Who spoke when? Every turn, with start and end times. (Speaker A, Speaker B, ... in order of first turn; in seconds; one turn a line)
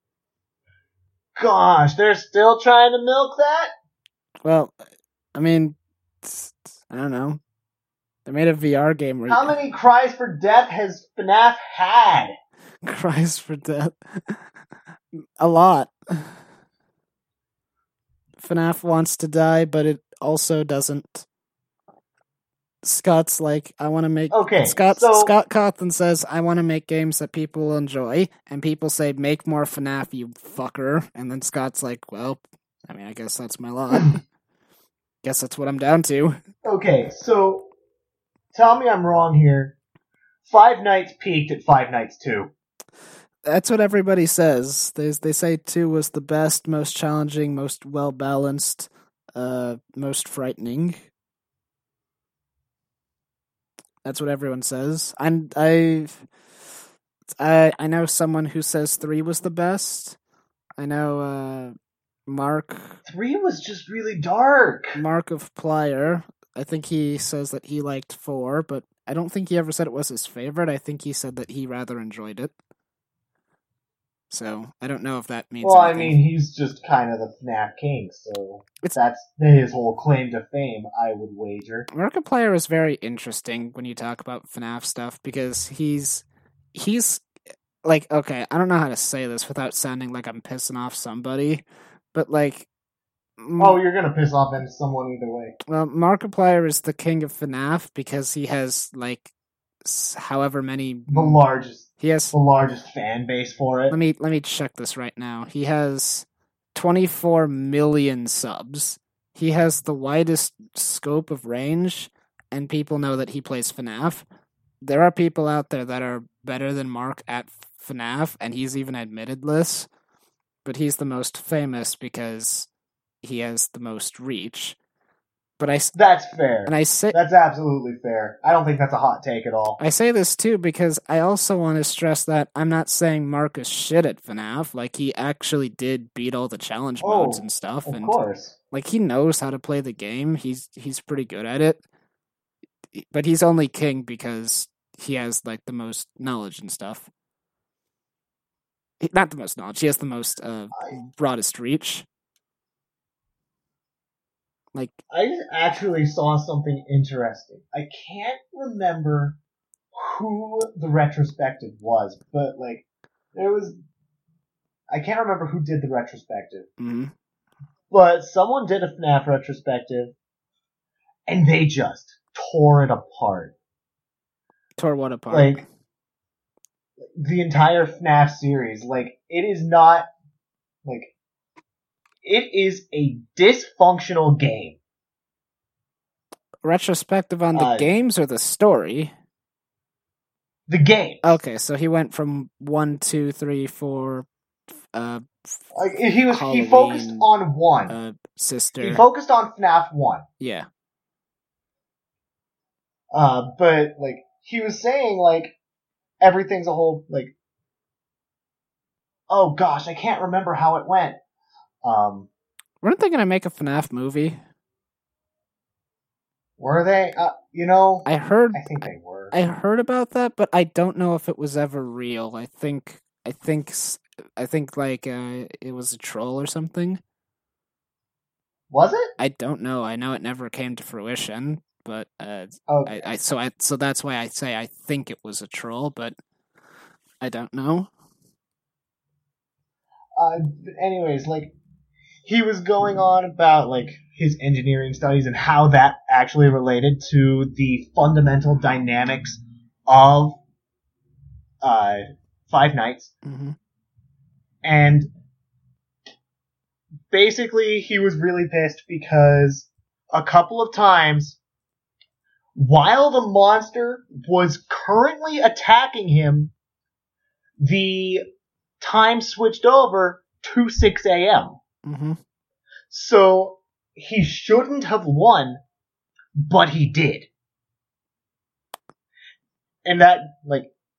Speaker A: 1.4-3.7
Speaker B: 4.4-4.7
Speaker B: 5.3-7.4
Speaker B: 8.2-9.5
Speaker A: 9.3-12.3
Speaker B: 12.8-14.4
Speaker B: 15.4-16.4
Speaker B: 18.4-21.2
Speaker B: 22.8-34.2
Speaker A: 24.3-25.3
Speaker B: 35.2-36.4
Speaker A: 36.6-37.7
Speaker A: 38.5-39.8
Speaker A: 40.5-42.5
Speaker B: 43.4-51.1
Speaker B: 54.0-56.3
Speaker B: 57.2-60.2
Speaker B: 60.8-61.7
Speaker B: 62.3-63.0
Speaker A: 63.0-65.0
Speaker B: 64.9-72.5
Speaker B: 74.3-76.2
Speaker A: 75.6-81.9
Speaker B: 81.9-87.3
Speaker B: 87.8-92.7
Speaker B: 93.4-93.8
Speaker A: 93.6-95.5
Speaker B: 95.7-99.3
Speaker B: 99.8-101.4
Speaker A: 101.1-103.9
Speaker B: 102.0-102.3
Speaker B: 103.9-114.2
Speaker B: 114.8-119.9
Speaker B: 120.6-122.7
Speaker B: 123.2-124.8
Speaker B: 125.6-125.9
Speaker A: 125.9-129.8
Speaker B: 126.7-127.2
Speaker B: 129.8-138.1
Speaker A: 137.0-138.6
Speaker B: 138.7-141.8
Speaker B: 142.9-147.1
Speaker B: 149.0-152.1
Speaker A: 155.1-159.4
Speaker A: 159.9-163.8
Speaker A: 164.9-166.7
Speaker B: 166.8-167.1
Speaker A: 167.9-170.1
Speaker A: 171.3-173.5
Speaker B: 174.8-175.6
Speaker A: 175.3-175.6
Speaker A: 177.1-180.1
Speaker A: 180.8-181.1
Speaker A: 182.2-184.8
Speaker B: 186.6-189.1
Speaker A: 187.5-187.9
Speaker A: 190.7-191.4
Speaker B: 191.2-194.3
Speaker B: 194.9-195.6
Speaker A: 195.7-197.9
Speaker B: 196.3-197.3
Speaker B: 197.9-199.0
Speaker A: 198.8-200.2
Speaker B: 200.4-200.7
Speaker A: 203.1-205.5
Speaker A: 206.2-207.3
Speaker A: 209.3-211.2
Speaker A: 211.8-212.3
Speaker B: 212.8-214.4
Speaker A: 216.6-219.3
Speaker B: 218.1-227.0
Speaker A: 228.7-229.1
Speaker B: 229.2-236.1
Speaker A: 232.7-233.0
Speaker B: 237.2-237.9
Speaker A: 240.2-241.5
Speaker A: 242.2-250.4
Speaker A: 251.6-253.1
Speaker B: 253.2-253.6
Speaker A: 254.6-255.1
Speaker A: 257.1-261.4
Speaker A: 262.6-266.5
Speaker A: 267.6-268.2
Speaker A: 268.8-271.6
Speaker B: 271.9-272.2
Speaker A: 272.9-275.6
Speaker A: 276.4-277.3
Speaker A: 279.9-280.7